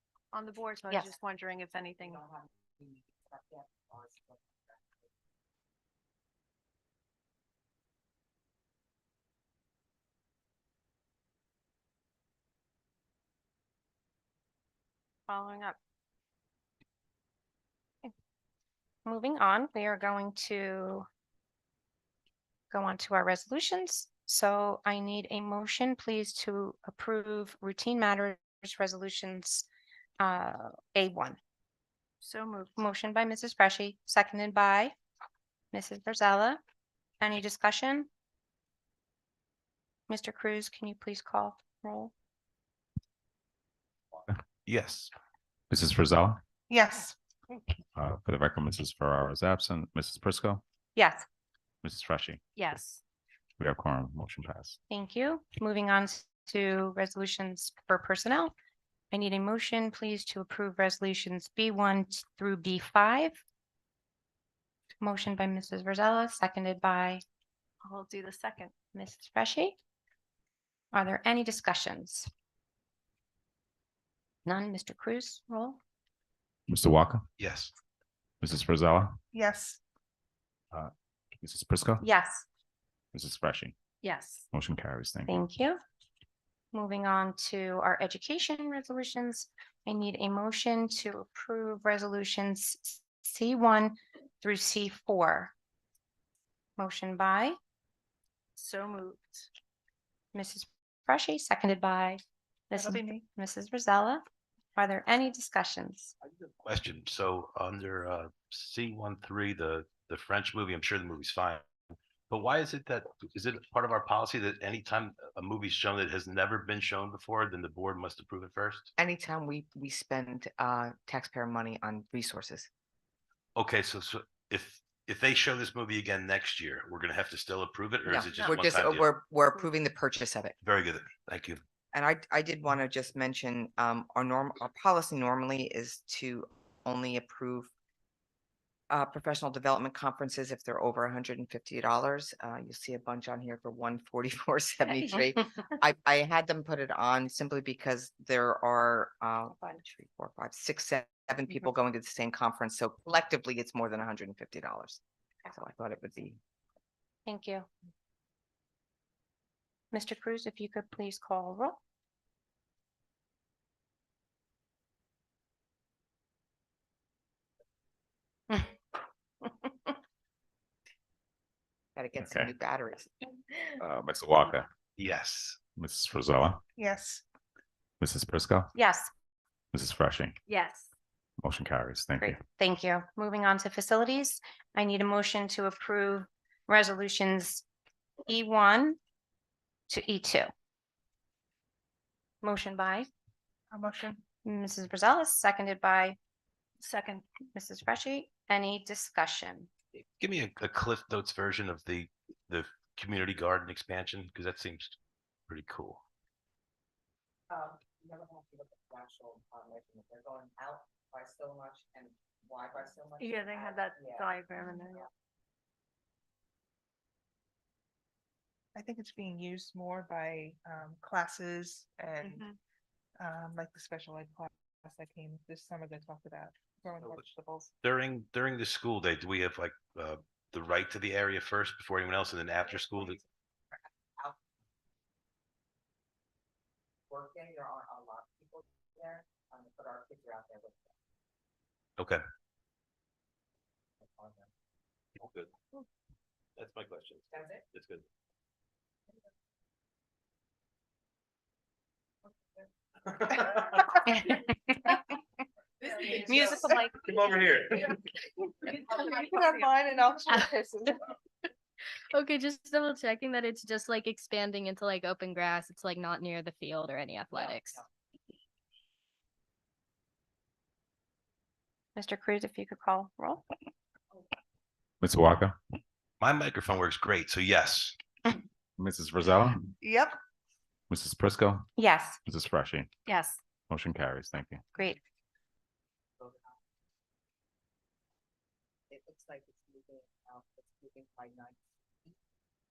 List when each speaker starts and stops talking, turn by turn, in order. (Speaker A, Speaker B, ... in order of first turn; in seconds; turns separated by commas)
Speaker A: 0.3-2.2, Speaker B: 2.0-5.1, Speaker C: 15.3-15.8, Speaker C: 19.1-21.1, Speaker C: 22.7-29.7, Speaker C: 30.2-31.4, Speaker A: 32.2-32.8, Speaker C: 32.8-34.9, Speaker C: 35.7-36.6, Speaker C: 37.2-38.1, Speaker C: 40.1-42.1, Speaker D: 44.7-45.1, Speaker E: 45.7-46.4, Speaker F: 46.7-47.2, Speaker E: 48.0-50.6, Speaker C: 51.0-51.2, Speaker E: 51.8-52.4, Speaker A: 52.6-53.0, Speaker E: 53.6-54.8, Speaker C: 54.9-58.5, Speaker C: 59.1-63.4, Speaker C: 65.0-67.2, Speaker A: 67.8-68.7, Speaker C: 68.9-69.8, Speaker C: 70.9-72.3, Speaker C: 74.5-75.8, Speaker E: 76.7-77.2, Speaker D: 77.4-77.7, Speaker E: 78.4-79.2, Speaker F: 79.3-79.8, Speaker E: 80.7-82.0, Speaker C: 82.0-82.5, Speaker E: 83.1-83.7, Speaker A: 84.0-84.5, Speaker E: 84.5-85.4, Speaker C: 85.3-85.8, Speaker C: 86.7-95.5, Speaker C: 96.8-97.6, Speaker A: 98.6-99.5, Speaker C: 100.3-104.2, Speaker F: 102.8-103.2, Speaker C: 104.8-106.1, Speaker D: 106.7-111.7, Speaker D: 112.3-118.9, Speaker B: 119.0-122.7, Speaker D: 123.6-129.1, Speaker B: 128.1-130.6, Speaker D: 130.6-131.6, Speaker B: 131.9-137.7, Speaker B: 138.9-156.4, Speaker C: 149.6-149.8, Speaker C: 157.3-157.7, Speaker C: 159.9-161.8, Speaker C: 168.5-168.8, Speaker C: 169.4-169.9, Speaker B: 172.0-173.1, Speaker E: 172.2-172.5, Speaker E: 173.8-174.7, Speaker D: 175.0-175.6, Speaker E: 175.8-176.6, Speaker F: 176.8-177.2, Speaker E: 178.0-178.7, Speaker C: 178.8-179.1, Speaker E: 179.7-180.4, Speaker A: 180.5-180.9, Speaker E: 181.4-182.4, Speaker C: 182.2-187.7, Speaker C: 188.3-189.0, Speaker C: 189.9-190.5, Speaker C: 192.4-193.1, Speaker F: 193.7-194.2, Speaker C: 194.4-196.2, Speaker A: 196.8-197.3, Speaker C: 197.5-199.7, Speaker D: 200.0-205.0, Speaker D: 205.5-206.0, Speaker B: 207.5-214.3, Speaker A: 213.2-215.1, Speaker F: 218.8-222.4, Speaker A: 222.2-222.6, Speaker F: 223.2-227.7, Speaker D: 227.8-233.2, Speaker B: 232.8-234.4, Speaker B: 237.1-240.9, Speaker B: 244.0-244.5, Speaker D: 245.2-245.5, Speaker D: 246.6-248.0, Speaker B: 247.3-247.6, Speaker D: 253.2-254.1, Speaker C: 256.1-257.0, Speaker D: 257.0-257.9, Speaker F: 258.9-261.0, Speaker G: 262.1-267.8, Speaker C: 272.0-273.4, Speaker E: 275.0-275.6, Speaker D: 276.2-278.0, Speaker E: 278.8-279.7, Speaker F: 279.8-280.2, Speaker E: 280.9-281.7, Speaker C: 281.8-282.2, Speaker E: 282.2-282.9, Speaker A: 283.1-283.4, Speaker E: 283.7-284.6, Speaker B: 286.2-286.6, Speaker B: 288.9-292.2